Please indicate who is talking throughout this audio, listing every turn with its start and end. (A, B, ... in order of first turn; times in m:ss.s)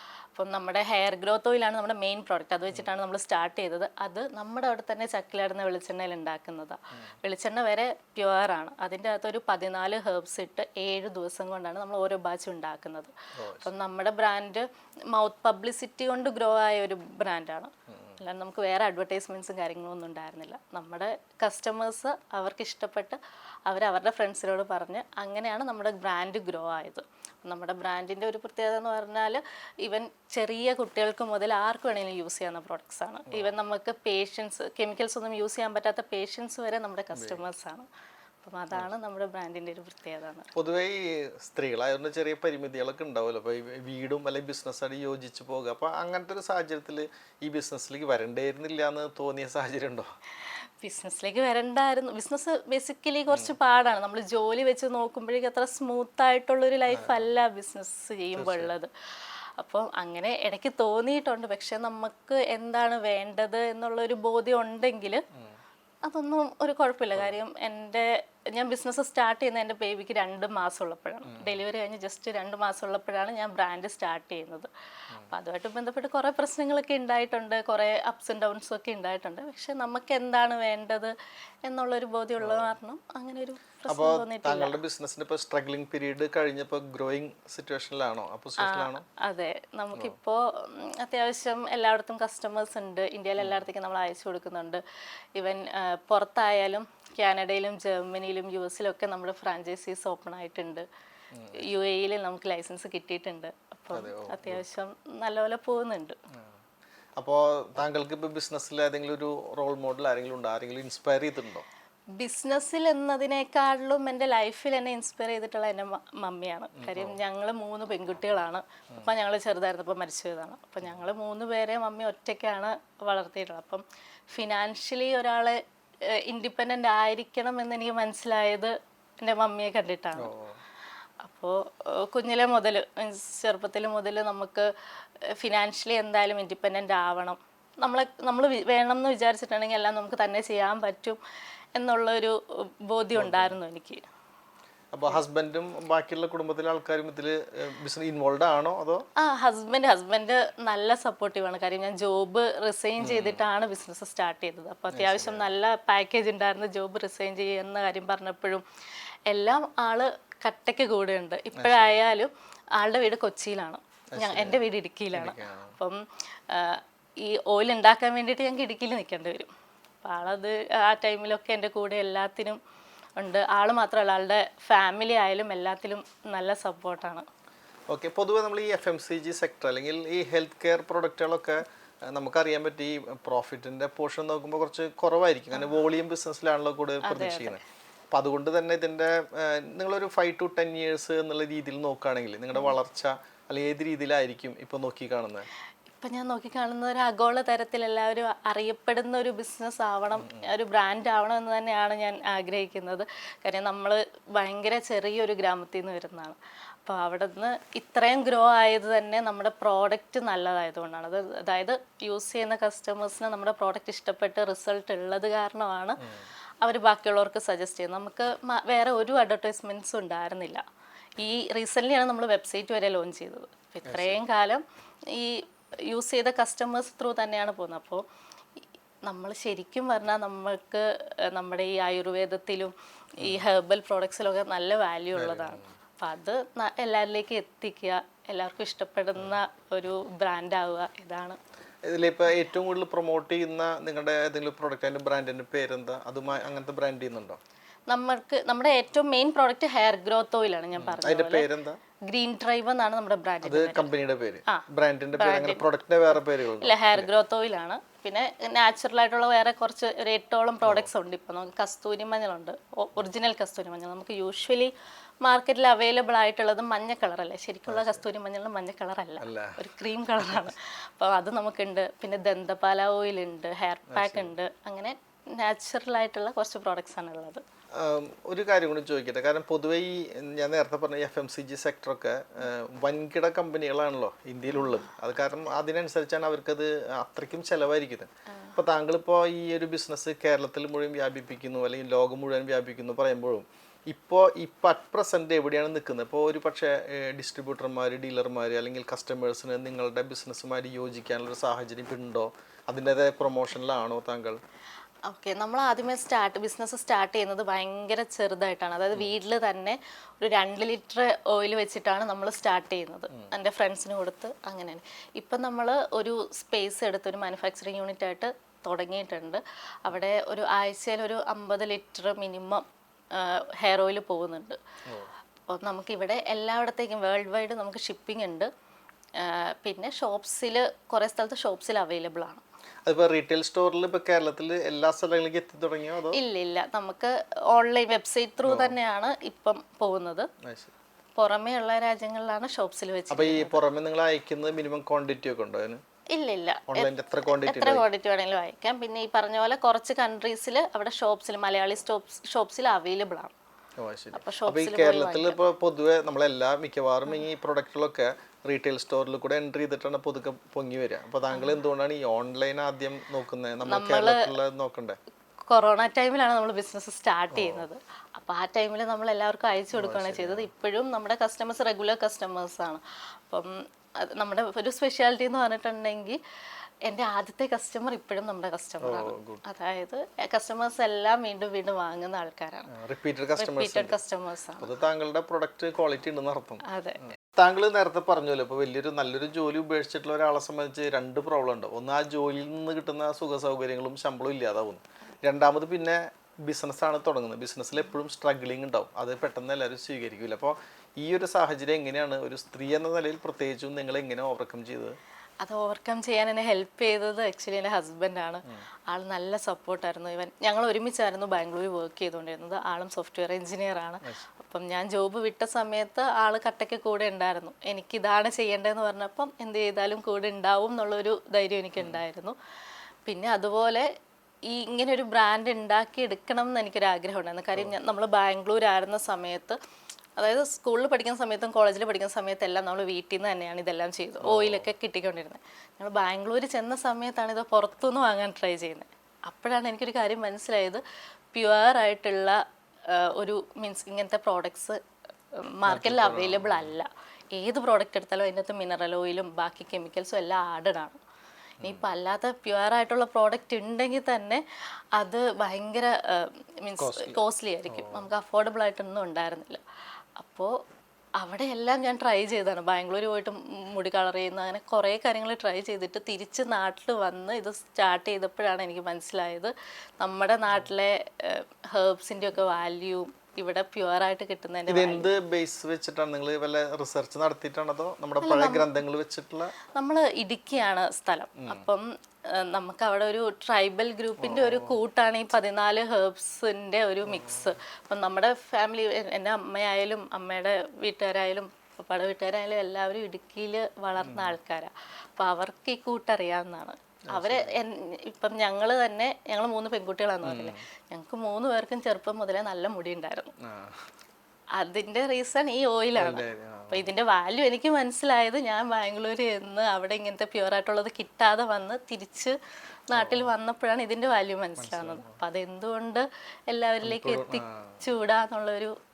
0:00.4-0:37.9 A
0:13.4-0:13.7 B
0:17.9-0:18.2 B
0:37.1-0:37.4 B
0:38.4-0:40.5 A
0:40.6-0:50.1 B
0:50.8-1:05.2 A
0:56.9-0:57.3 B
0:58.4-0:58.7 B
1:06.0-1:14.7 A
1:11.2-1:11.6 B
1:15.3-1:24.8 A
1:22.4-1:22.8 B
1:23.9-1:29.0 B
1:28.6-1:34.8 A
1:35.4-1:40.9 A
1:41.5-1:46.2 A
1:43.9-1:44.6 B
1:47.2-1:51.6 B
1:52.2-2:05.6 A
1:56.8-1:57.2 B
2:06.3-2:10.3 A
2:10.2-2:10.6 B
2:11.2-2:14.7 A
2:15.4-2:21.2 A
2:21.8-2:24.0 A
2:23.2-2:23.6 B
2:24.9-2:29.0 B
2:29.2-2:38.6 A
2:33.0-2:33.4 B
2:34.9-2:35.5 B
2:39.3-2:49.5 A
2:41.6-2:42.0 B
2:44.2-2:44.6 B
2:45.1-2:45.8 B
2:50.0-2:52.6 A
2:53.2-2:57.2 A
2:57.9-3:07.6 B
3:07.0-3:07.6 A
3:08.1-3:15.5 B
3:15.9-3:36.0 A
3:20.2-3:20.4 B
3:36.6-3:40.6 A
3:41.2-3:48.0 A
3:43.8-3:44.2 B
3:49.0-4:01.4 A
3:55.2-3:55.7 B
4:01.8-4:07.4 B
4:07.9-4:11.5 A
4:10.8-4:11.8 B
4:12.1-4:13.9 A
4:13.4-4:17.1 B
4:15.2-4:15.6 A
4:16.6-4:24.7 A
4:25.2-4:37.4 A
4:27.7-4:28.0 B
4:29.2-4:29.6 B
4:30.2-4:30.5 B
4:33.9-4:34.3 B
4:37.8-5:04.4 B
4:48.3-4:48.6 A
5:05.1-5:24.6 A
5:25.5-5:28.5 A
5:29.2-5:32.4 A
5:32.9-5:36.2 B
5:36.1-5:40.3 A
5:38.4-5:38.8 B
5:40.4-5:40.7 B
5:41.2-5:43.6 A
5:43.1-5:45.8 B
5:46.1-5:53.3 A
5:46.7-5:47.8 B
5:53.8-6:05.0 B
5:54.1-5:55.4 A
6:01.3-6:01.6 A
6:03.7-6:04.3 A
6:05.5-6:16.2 A
6:07.3-6:07.7 B
6:09.8-6:10.5 B
6:16.8-6:22.7 A
6:18.8-6:19.4 B
6:22.7-6:24.0 B
6:23.4-6:24.7 A
6:24.6-6:26.6 B
6:26.6-6:27.0 A
6:27.3-6:45.0 B
6:45.4-7:02.4 A
7:03.1-7:03.9 A
7:04.5-7:09.6 A
7:10.2-7:20.8 A
7:14.2-7:14.7 B
7:21.3-7:22.4 A
7:22.9-7:24.8 A
7:25.6-7:31.0 A
7:25.7-7:26.7 B
7:31.6-7:31.9 B
7:31.6-7:34.4 A
7:35.0-7:39.6 A
7:36.8-7:38.1 B
7:40.2-7:40.5 A
7:41.2-7:55.1 A
7:54.7-7:59.5 B
7:58.2-7:58.7 A
7:59.8-8:23.3 A
8:01.4-8:01.6 B
8:04.2-8:04.8 B
8:14.0-8:14.4 B
8:17.1-8:17.6 B
8:20.2-8:20.6 B
8:23.4-8:23.8 B
8:24.6-8:32.4 A
8:26.0-8:26.9 B
8:32.9-8:38.7 A
8:33.0-8:33.3 B
8:34.6-8:35.2 B
8:36.8-8:37.8 B